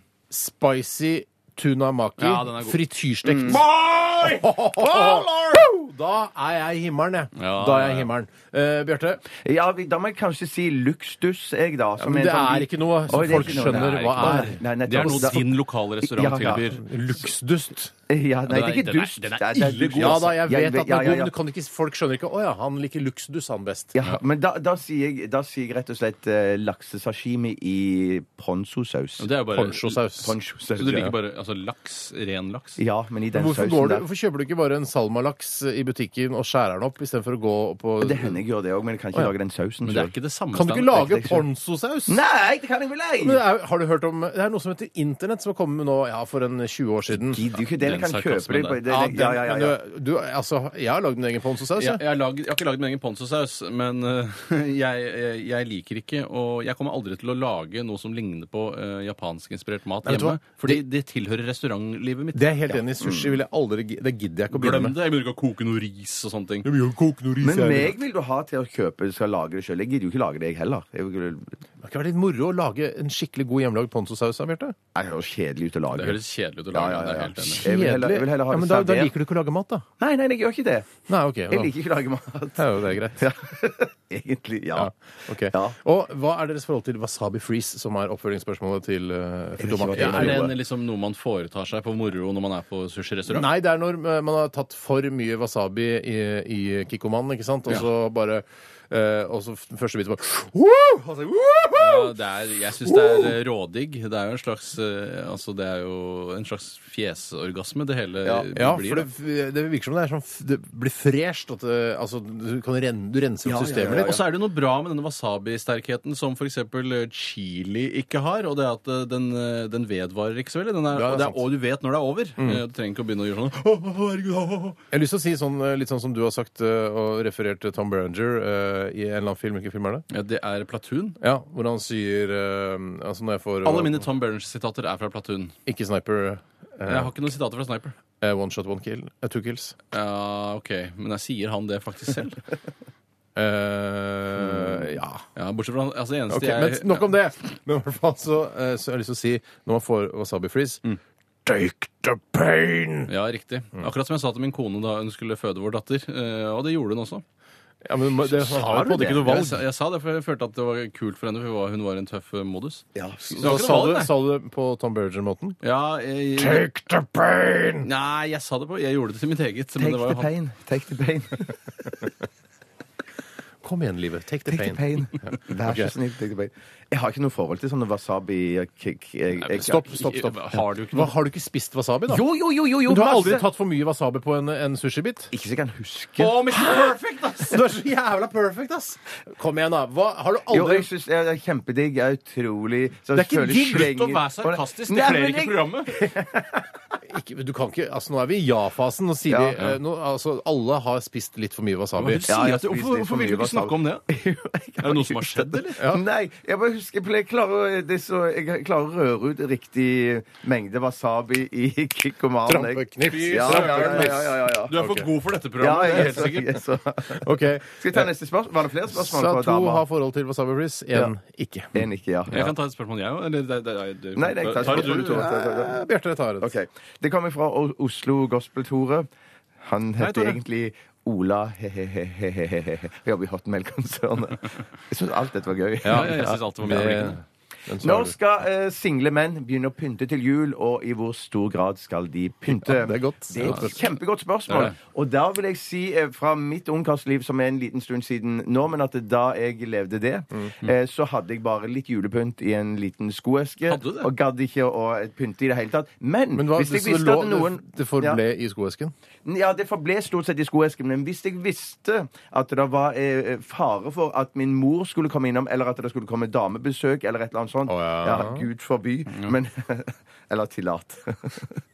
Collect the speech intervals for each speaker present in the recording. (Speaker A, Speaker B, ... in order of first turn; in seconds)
Speaker A: 0.3-9.2, 12.0-15.4, 16.5-17.9, 20.0-23.9, 29.5-30.3, 33.3-38.4, 40.5-42.2, 43.2-47.4, 48.9-52.0, 60.0-60.8, 62.3-65.0, 66.6-68.0, 71.8-74.8, 77.6-79.8, 81.1-81.7, 82.6-83.3, 84.8-90.5, 93.3-102.1, 102.8-103.3, 108.5-114.1, 120.9-121.4, 122.4-122.6, 124.9-130.1, 131.2-134.1, 135.7-137.1, 138.2-139.8, 143.3-145.3, 146.3-150.8, 151.4-153.1, 157.8-159.6, 163.4-165.6, 166.4-167.9, 173.6-175.9, 179.6-182.2, 182.8-185.3, 186.5-190.9, 193.1-193.9, 197.1-202.2, 212.5-215.1, 217.1-218.1, 218.9-221.8, 224.6-226.5, 235.8-238.1, 242.5-243.8, 256.4-258.9, 267.7-268.4
Speaker B: 2.2-2.8, 7.4-8.1, 13.1-16.8, 18.5-20.3, 29.2-30.0, 30.8-32.8, 39.9-41.0, 47.8-48.8, 51.8-62.8, 64.5-66.7, 75.9-77.7, 90.0-93.5, 101.8-109.1, 113.8-124.8, 130.1-131.2, 133.6-135.6, 136.9-137.9, 139.9-142.4, 145.4-147.1, 153.1-157.2, 158.2-162.9, 163.4-164.1, 165.6-166.7, 167.8-170.3, 179.4-181.1, 186.2-187.6, 193.3-195.9, 202.0-204.1, 204.8-205.8, 213.0-216.6, 222.3-225.3, 230.0-230.4, 235.8-237.2, 243.4-243.9, 244.5-244.8, 253.7-254.1
Speaker C: 3.2-3.6, 4.8-5.6, 9.4-15.5, 16.0-16.7, 18.1-21.3, 23.9-29.3, 30.2-31.1, 32.8-34.0, 38.0-40.1, 40.9-41.4, 42.1-43.4, 47.1-49.8, 63.0-63.4, 67.4-71.6, 74.9-76.2, 76.7-79.1, 80.0-80.9, 81.5-84.9, 85.5-85.8, 89.6-90.5, 113.5-114.2, 162.9-163.6, 169.8-171.6, 174.5-179.8, 182.1-183.4, 185.3-186.4, 190.5-196.3, 199.3-199.6, 202.3-214.7, 215.6-219.8, 221.7-222.5, 224.2-225.8, 226.4-229.1, 229.6-236.2, 237.8-258.2, 259.2-271.6